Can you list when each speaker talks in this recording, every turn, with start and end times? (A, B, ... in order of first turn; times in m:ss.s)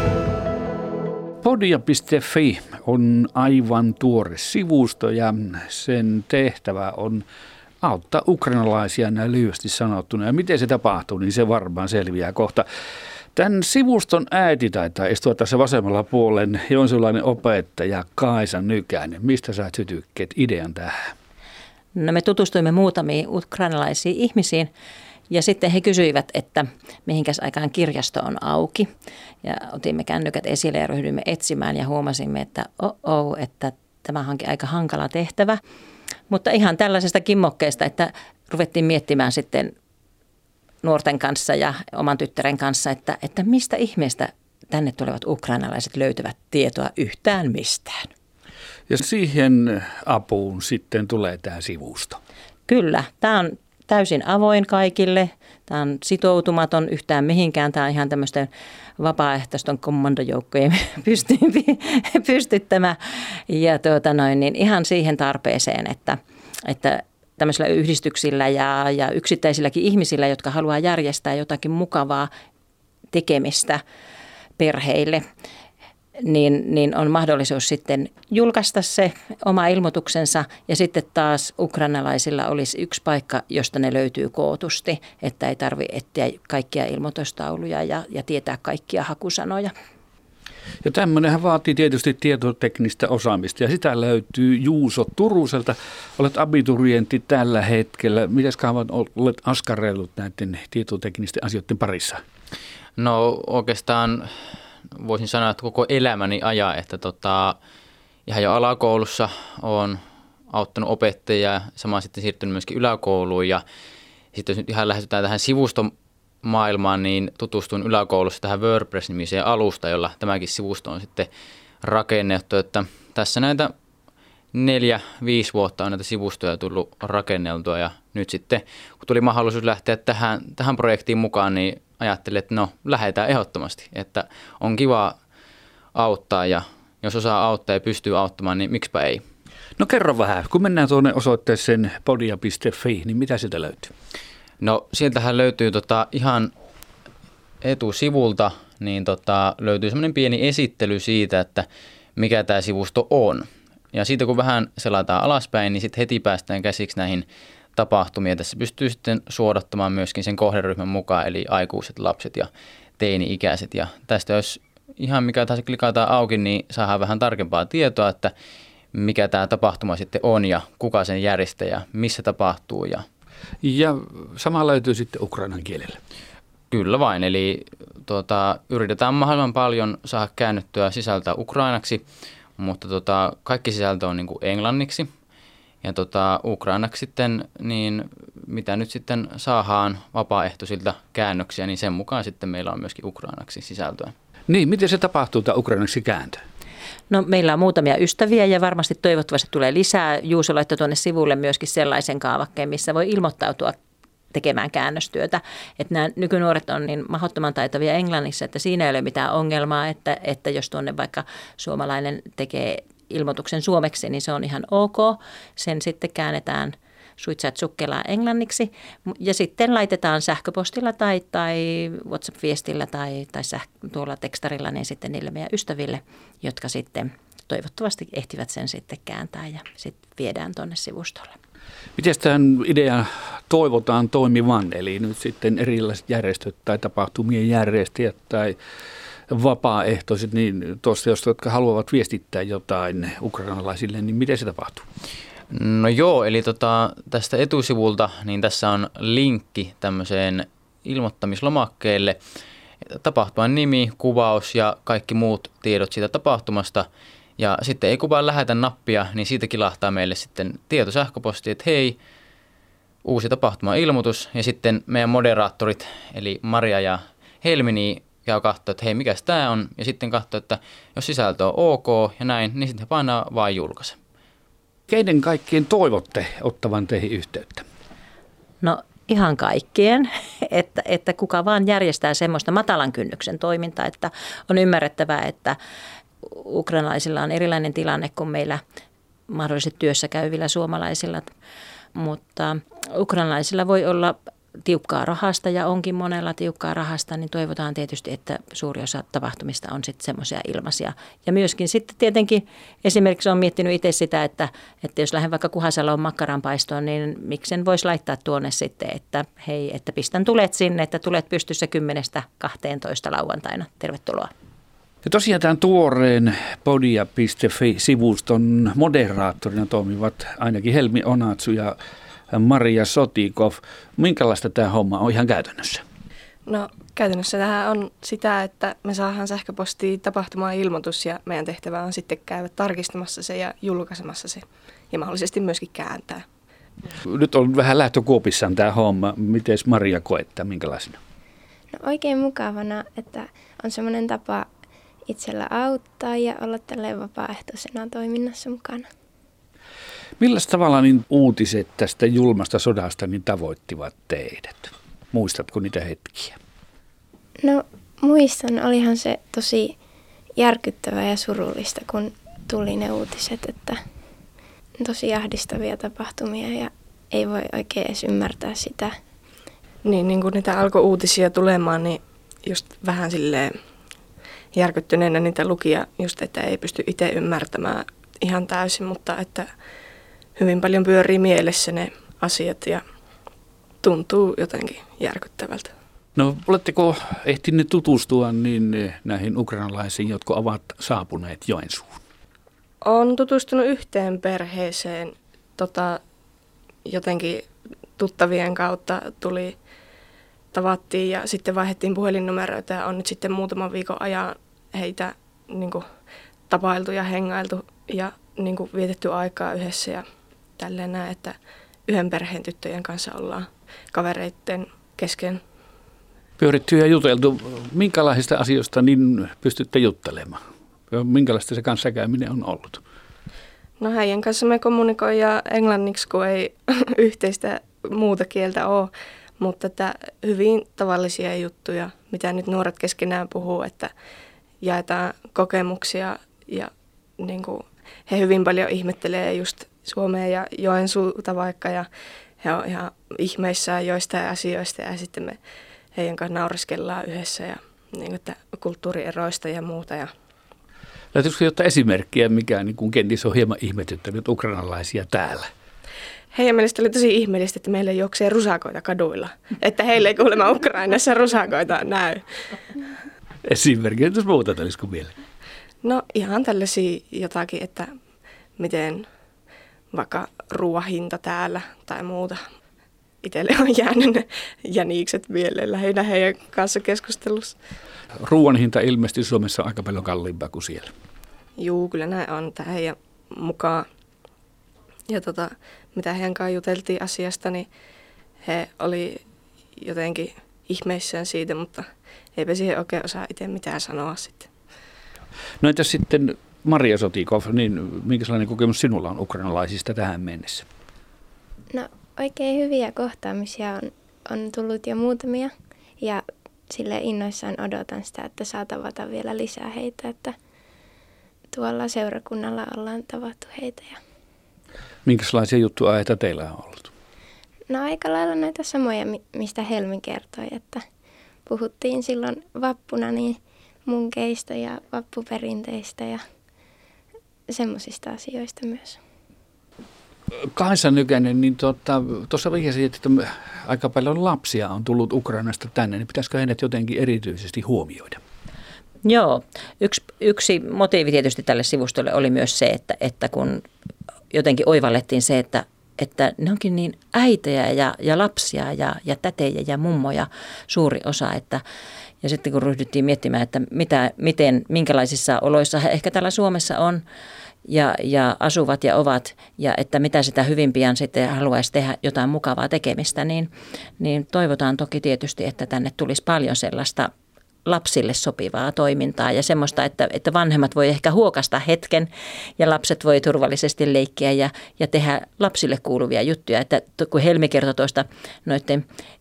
0:01.4-0:07.2 A
0:07.8-0:12.6 A
0:13.3-0:20.9 A
0:21.9-0:24.7 B
0:25.3-0:28.9 B
0:29.4-0:35.6 B
0:36.3-0:39.7 B
0:40.8-0:48.1 B
0:48.9-0:52.2 A
0:52.7-1:12.3 B
1:13.1-1:13.8 B
1:14.6-1:15.2 B
1:16.2-1:29.7 B
1:30.8-1:42.2 A
1:43.0-1:44.3 C
1:45.0-1:47.6 C
1:48.3-1:50.0 C
1:50.5-1:53.6 C
1:54.3-1:55.9 C
1:56.4-2:01.3 C
2:01.8-2:03.7 C
2:04.5-2:15.1 C
2:15.9-2:19.2 C
2:19.8-2:23.9 A
2:24.6-2:26.5 C
2:27.6-2:31.6 C
2:32.2-2:48.3 C
2:48.9-2:53.0 C
2:53.6-2:56.0 A
2:56.7-3:02.0 C
3:02.6-3:05.1 C
3:05.8-3:14.1 C
3:14.5-3:16.4 A
3:17.1-3:23.7 B
3:24.3-3:51.3 B
3:52.0-3:58.6 A
3:59.3-4:04.8 A
4:05.5-4:12.2 C
4:12.8-4:16.8 C
4:17.4-4:22.0 C
4:23.0-4:34.0 C
4:34.9-4:37.6 A
4:38.6-4:45.6 B
4:46.2-4:48.6 B
4:49.3-4:51.3 B
4:51.9-5:14.3 B
5:15.0-5:21.8 A
5:22.3-5:25.8 A
5:26.4-5:36.2 D
5:37.0-5:41.0 A
5:41.7-5:44.5 E
5:45.1-5:48.8 E
5:50.2-5:56.4 A
5:57.4-5:59.8 E
6:00.4-6:03.8 E
6:04.8-6:08.9 E
6:09.8-6:13.5 D
6:14.5-6:19.5 D
6:20.4-6:22.8 D
6:23.8-6:25.7 D
6:26.2-6:32.0 A
6:32.8-6:36.0 D
6:36.8-6:37.4 D
6:38.0-6:39.5 D
6:40.5-6:45.8 D
6:46.5-6:50.0 D
6:50.6-6:51.3 D
6:51.9-6:55.4 D
6:56.4-7:02.8 A
7:03.8-7:13.9 D
7:14.6-7:21.9 D
7:22.4-7:25.4 D
7:25.9-7:30.1 D
7:31.1-7:35.5 A
7:36.3-7:42.6 D
7:43.4-7:45.1 A
7:45.8-7:47.9 D
7:48.6-7:49.0 D
7:49.9-7:52.4 D
7:53.2-7:57.6 D
7:58.2-8:00.9 A
8:01.6-8:03.8 D
8:05.1-8:07.7 D
8:08.4-8:09.2 D
8:09.8-8:14.5 D
8:15.6-8:20.6 A
8:21.7-8:30.3 E
8:31.5-8:34.0 E
8:35.0-8:36.9 A
8:37.7-8:40.8 E
8:41.4-8:46.2 E
8:47.5-8:49.0 E
8:50.4-8:58.2 A
8:59.0-9:03.6 B
9:04.3-9:11.6 B
9:12.2-9:17.0 B
9:17.6-9:27.1 B
9:27.6-9:38.8 B